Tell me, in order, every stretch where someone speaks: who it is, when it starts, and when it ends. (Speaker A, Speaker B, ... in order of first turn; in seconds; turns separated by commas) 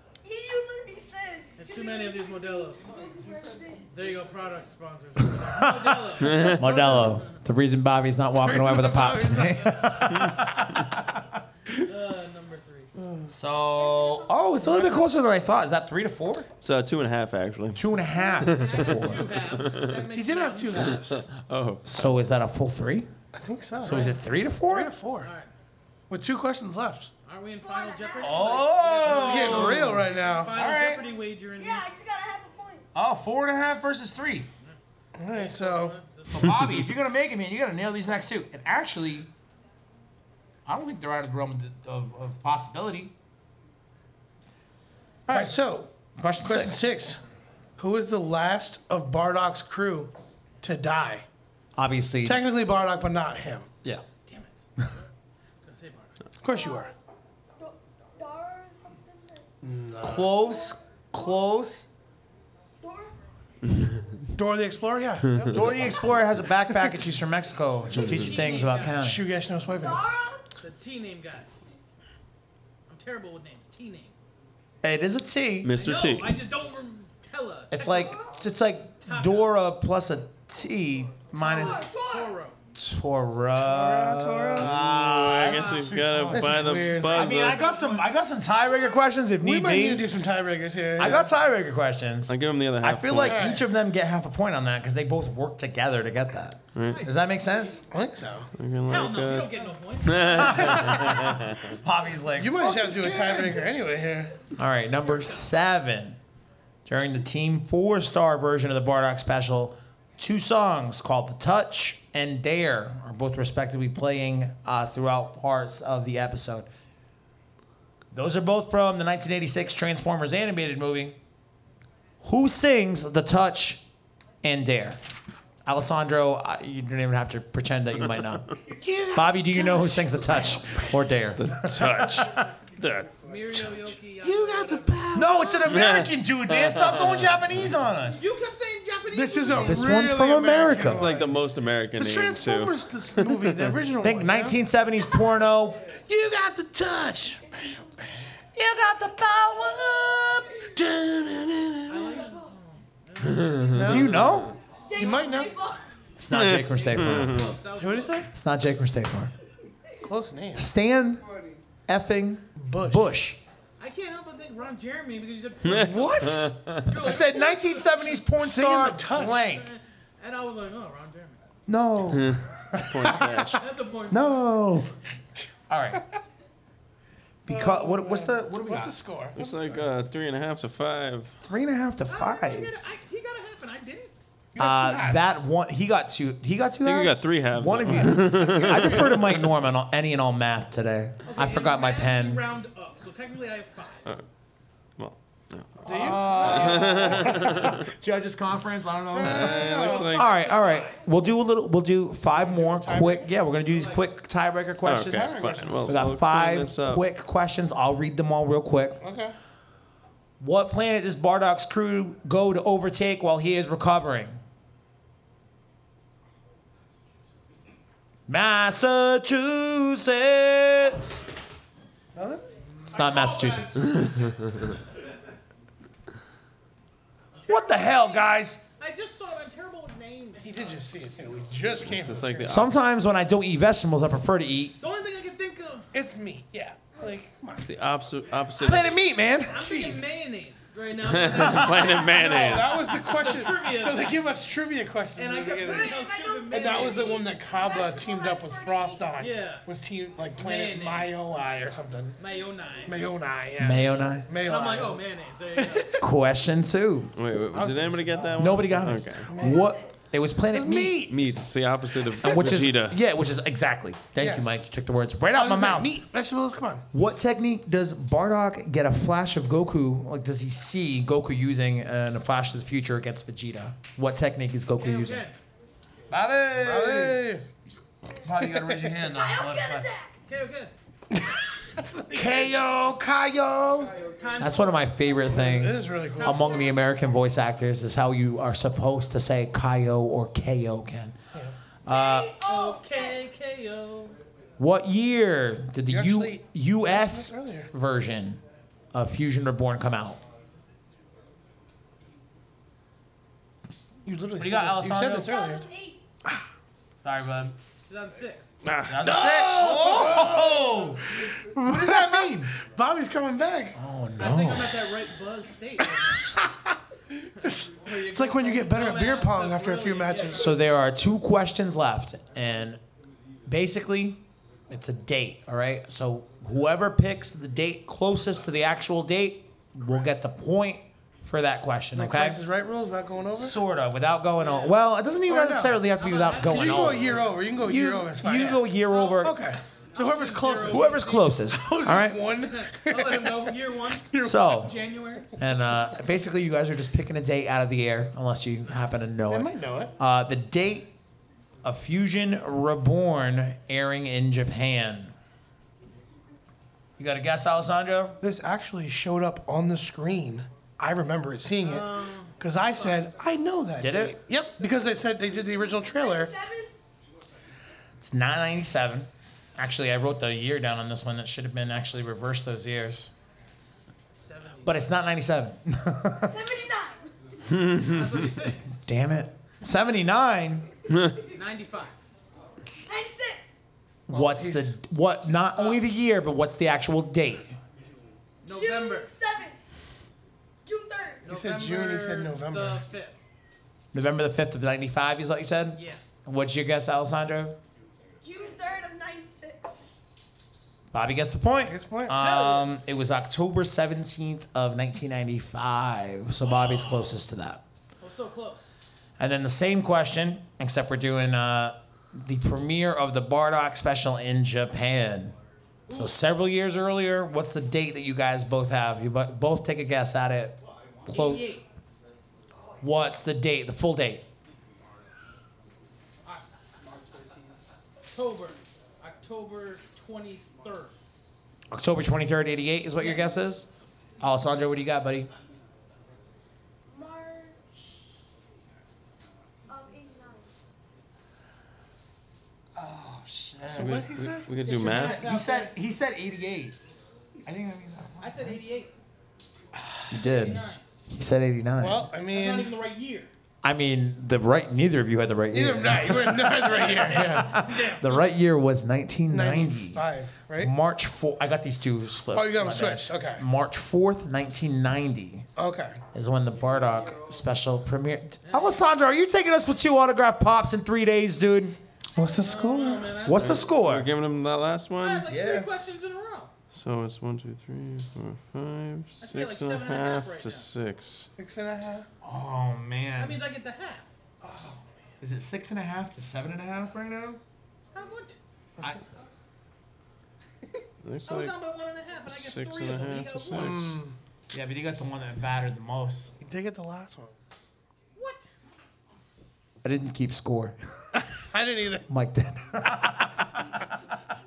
Speaker A: 0.2-4.0, Speaker B: 1.6-2.9, Speaker B: 3.9-7.4, Speaker C: 5.4-11.2, Speaker D: 6.3-6.5, Speaker E: 8.4-9.7, Speaker B: 9.7-10.2, Speaker B: 11.7-12.9, Speaker E: 12.9-13.3, Speaker C: 13.3-16.5, Speaker A: 13.8-14.4, Speaker D: 16.6-20.0, Speaker C: 17.8-19.3, Speaker B: 18.5-21.1, Speaker E: 20.1-21.3, Speaker D: 20.8-22.1, Speaker C: 21.8-23.1, Speaker E: 23.3-25.3, Speaker C: 23.8-24.9, Speaker B: 25.2-25.5, Speaker E: 26.1-27.1, Speaker B: 27.2-31.9, Speaker A: 27.6-28.6, Speaker C: 28.2-31.1, Speaker E: 29.0-30.6, Speaker A: 31.5-32.9, Speaker C: 33.0-34.5, Speaker B: 34.6-36.5, Speaker E: 35.2-36.0, Speaker C: 36.3-39.3, Speaker C: 40.7-43.1, Speaker C: 45.3-45.6, Speaker E: 45.3-47.2, Speaker C: 46.2-46.8, Speaker E: 47.8-51.3, Speaker C: 51.8-52.4, Speaker E: 52.2-53.7, Speaker B: 54.3-54.9, Speaker B: 55.6-56.2, Speaker E: 56.4-56.9, Speaker A: 56.5-56.9, Speaker A: 57.6-59.5, Speaker E: 59.6-60.3, Speaker C: 60.0-61.9, Speaker A: 60.2-61.7, Speaker A: 62.8-63.3, Speaker E: 64.4-66.0, Speaker C: 65.5-69.2, Speaker E: 66.7-67.0, Speaker B: 68.0-69.0, Speaker E: 69.0-70.1, Speaker A: 69.8-70.5, Speaker B: 70.5-71.5, Speaker B: 72.9-74.1, Speaker C: 74.8-75.8, Speaker D: 75.6-76.4, Speaker B: 75.8-78.1, Speaker C: 77.7-81.9, Speaker A: 78.0-78.4, Speaker B: 79.0-79.5, Speaker B: 81.4-82.6, Speaker A: 81.4-82.4, Speaker C: 82.7-90.1, Speaker E: 83.6-84.8, Speaker D: 84.6-87.6, Speaker B: 85.5-86.0, Speaker E: 86.3-87.4, Speaker B: 87.4-88.1, Speaker E: 89.4-91.3, Speaker C: 91.0-97.8, Speaker D: 92.3-93.4, Speaker E: 93.2-93.7, Speaker D: 96.7-97.0, Speaker B: 96.9-97.8, Speaker E: 97.9-98.5, Speaker D: 98.6-101.6, Speaker B: 98.9-101.0, Speaker C: 100.4-101.1, Speaker E: 100.6-101.3, Speaker C: 101.7-103.4, Speaker E: 102.3-104.4, Speaker A: 102.6-103.7, Speaker C: 104.5-106.2, Speaker C: 106.9-116.7, Speaker C: 118.1-121.2, Speaker C: 122.2-123.8, Speaker C: 124.4-125.0, Speaker C: 125.6-128.6, Speaker E: 128.7-130.9, Speaker C: 129.1-132.6, Speaker D: 131.4-133.7, Speaker E: 131.7-132.3, Speaker B: 133.2-135.9, Speaker E: 134.2-135.6, Speaker C: 135.1-138.2, Speaker D: 135.7-137.4, Speaker B: 138.1-139.9, Speaker E: 139.1-141.4, Speaker C: 139.6-141.1, Speaker D: 140.9-143.7, Speaker E: 142.0-144.6, Speaker C: 144.0-145.9, Speaker E: 145.9-148.3, Speaker A: 147.5-148.2, Speaker C: 148.6-150.7, Speaker E: 150.7-152.3, Speaker B: 151.9-154.1, Speaker A: 152.2-152.5, Speaker D: 153.2-154.5, Speaker E: 153.7-154.1, Speaker C: 153.8-154.6, Speaker A: 154.8-156.1, Speaker E: 154.9-155.5, Speaker C: 156.2-157.5, Speaker D: 156.3-157.5, Speaker B: 156.9-158.3, Speaker E: 157.8-158.3, Speaker C: 158.3-159.3, Speaker E: 160.0-160.7, Speaker C: 160.6-161.3, Speaker C: 161.9-163.4, Speaker E: 162.6-163.1, Speaker B: 163.8-168.3, Speaker D: 165.6-166.9, Speaker E: 165.6-166.6, Speaker C: 166.9-169.7, Speaker A: 167.3-167.6, Speaker E: 168.4-169.5, Speaker B: 169.4-171.4, Speaker C: 171.7-173.2, Speaker D: 172.1-173.6, Speaker B: 173.6-174.6, Speaker C: 174.1-174.9, Speaker C: 175.7-176.1, Speaker C: 177.5-179.0, Speaker E: 177.5-179.9, Speaker D: 179.3-181.4, Speaker C: 181.4-182.7, Speaker B: 182.1-184.1, Speaker E: 184.6-185.3, Speaker C: 184.6-192.4, Speaker D: 186.8-189.4, Speaker B: 191.2-194.1, Speaker D: 195.0-197.8, Speaker E: 195.8-197.5, Speaker C: 195.9-209.0, Speaker E: 199.1-200.2, Speaker D: 199.2-200.3, Speaker B: 200.2-200.9, Speaker E: 202.3-203.3, Speaker B: 203.7-204.0, Speaker D: 204.8-207.1, Speaker E: 205.1-206.0, Speaker E: 209.0-209.3, Speaker C: 210.4-214.4, Speaker C: 218.3-221.3, Speaker E: 222.1-222.5, Speaker B: 222.7-224.4, Speaker C: 222.9-224.0, Speaker D: 224.2-224.5, Speaker B: 227.4-230.8, Speaker C: 227.5-228.7, Speaker E: 230.4-232.7, Speaker D: 231.9-232.7, Speaker C: 232.5-234.8, Speaker B: 234.8-235.9, Speaker E: 235.9-237.7, Speaker D: 237.6-239.0, Speaker C: 238.6-240.2, Speaker B: 239.5-244.1, Speaker D: 241.0-242.8, Speaker E: 242.0-252.2, Speaker B: 245.2-247.2, Speaker A: 245.5-249.2, Speaker B: 249.2-249.7, Speaker B: 250.4-251.1, Speaker B: 252.2-253.0, Speaker E: 252.9-255.0, Speaker C: 253.6-254.3, Speaker B: 254.4-256.0, Speaker E: 255.6-256.0, Speaker C: 256.0-257.1, Speaker D: 257.2-259.3, Speaker E: 257.5-258.3, Speaker C: 258.4-261.1, Speaker E: 259.2-259.7, Speaker A: 259.4-259.9, Speaker E: 260.5-261.2, Speaker D: 261.1-263.0, Speaker C: 262.2-265.9, Speaker E: 264.2-264.6, Speaker E: 265.3-266.9, Speaker C: 266.9-275.3, Speaker B: 274.8-275.4, Speaker C: 276.1-277.2, Speaker E: 276.6-277.5, Speaker C: 278.2-279.9, Speaker E: 278.4-278.8, Speaker A: 279.1-280.2, Speaker B: 280.3-280.7, Speaker E: 281.1-282.5, Speaker C: 282.1-291.2, Speaker B: 284.0-284.9, Speaker E: 285.3-286.6, Speaker B: 286.2-286.6, Speaker A: 286.4-286.9, Speaker C: 291.8-292.4, Speaker A: 291.9-293.2, Speaker B: 292.4-294.2, Speaker C: 294.6-298.4, Speaker E: 295.9-297.7, Speaker C: 298.9-300.2, Speaker E: 304.1-305.7, Speaker C: 304.4-305.3, Speaker A: 305.1-306.1, Speaker C: 307.0-307.6, Speaker B: 307.9-308.5, Speaker E: 308.6-313.8, Speaker C: 308.9-312.6, Speaker C: 313.8-314.9, Speaker B: 314.2-316.4, Speaker E: 317.1-320.6, Speaker B: 317.4-320.4, Speaker C: 320.3-322.8, Speaker C: 323.5-332.4, Speaker E: 331.9-333.6, Speaker C: 333.4-339.4, Speaker B: 334.4-334.8, Speaker E: 335.3-335.8, Speaker B: 335.9-337.1, Speaker E: 336.5-344.6, Speaker B: 338.9-339.3, Speaker B: 339.8-341.4, Speaker C: 340.6-342.2, Speaker B: 342.5-345.3, Speaker C: 344.2-344.8, Speaker C: 345.4-350.9, Speaker E: 349.3-349.9, Speaker C: 351.6-355.1, Speaker C: 357.0-358.2, Speaker E: 358.2-366.3, Speaker B: 361.6-363.0, Speaker C: 363.8-364.2, Speaker A: 365.3-366.8, Speaker C: 368.0-373.1, Speaker B: 374.1-374.9, Speaker C: 374.6-376.4, Speaker A: 376.3-377.1, Speaker D: 377.5-378.3, Speaker B: 377.8-378.6, Speaker C: 378.8-380.7, Speaker D: 380.9-381.2, Speaker B: 381.3-382.0, Speaker A: 382.9-383.5, Speaker C: 384.1-387.6, Speaker E: 384.1-384.8, Speaker B: 385.6-385.8, Speaker B: 388.4-389.1, Speaker A: 388.4-389.6, Speaker A: 390.6-391.3, Speaker B: 391.3-393.2, Speaker E: 391.3-392.8, Speaker C: 393.9-397.6, Speaker B: 395.8-396.1, Speaker A: 398.2-400.0, Speaker C: 400.9-407.6, Speaker E: 401.6-402.4, Speaker B: 402.2-402.7, Speaker B: 408.0-408.7, Speaker C: 409.2-415.4, Speaker B: 415.9-416.2, Speaker C: 415.9-421.5, Speaker B: 420.9-421.6, Speaker C: 422.8-424.3, Speaker B: 428.1-431.0, Speaker C: 431.7-433.7, Speaker C: 434.2-435.3, Speaker A: 436.9-437.7, Speaker A: 439.7-440.6, Speaker C: 442.8-444.1, Speaker E: 443.6-444.5, Speaker D: 443.7-445.2, Speaker B: 444.6-445.7, Speaker C: 444.8-446.8, Speaker C: 447.4-448.6, Speaker B: 448.2-448.9, Speaker C: 450.1-452.1, Speaker B: 450.2-450.9, Speaker E: 451.8-452.7, Speaker B: 452.2-453.3, Speaker C: 453.6-460.1, Speaker E: 455.5-457.7, Speaker B: 456.9-458.3, Speaker E: 459.3-460.7, Speaker C: 460.6-465.5, Speaker E: 462.3-463.4, Speaker E: 465.6-466.0, Speaker C: 466.1-471.8, Speaker B: 468.5-468.8, Speaker E: 472.2-473.2, Speaker B: 472.2-473.7, Speaker C: 473.2-474.1, Speaker D: 473.4-475.3, Speaker B: 475.0-476.5, Speaker C: 475.3-475.7, Speaker D: 476.7-481.3, Speaker B: 479.2-480.7, Speaker E: 481.4-482.1, Speaker C: 482.2-483.4, Speaker B: 483.2-484.1, Speaker E: 484.4-484.8, Speaker C: 485.2-487.4, Speaker B: 487.9-488.4, Speaker E: 488.8-489.1, Speaker C: 488.8-489.1, Speaker D: 491.0-491.6, Speaker B: 491.3-493.8, Speaker D: 492.2-494.0, Speaker E: 493.5-494.2, Speaker C: 494.5-496.3, Speaker E: 496.4-497.4, Speaker B: 498.1-498.5, Speaker C: 499.8-500.8, Speaker E: 501.4-502.1, Speaker C: 502.1-503.7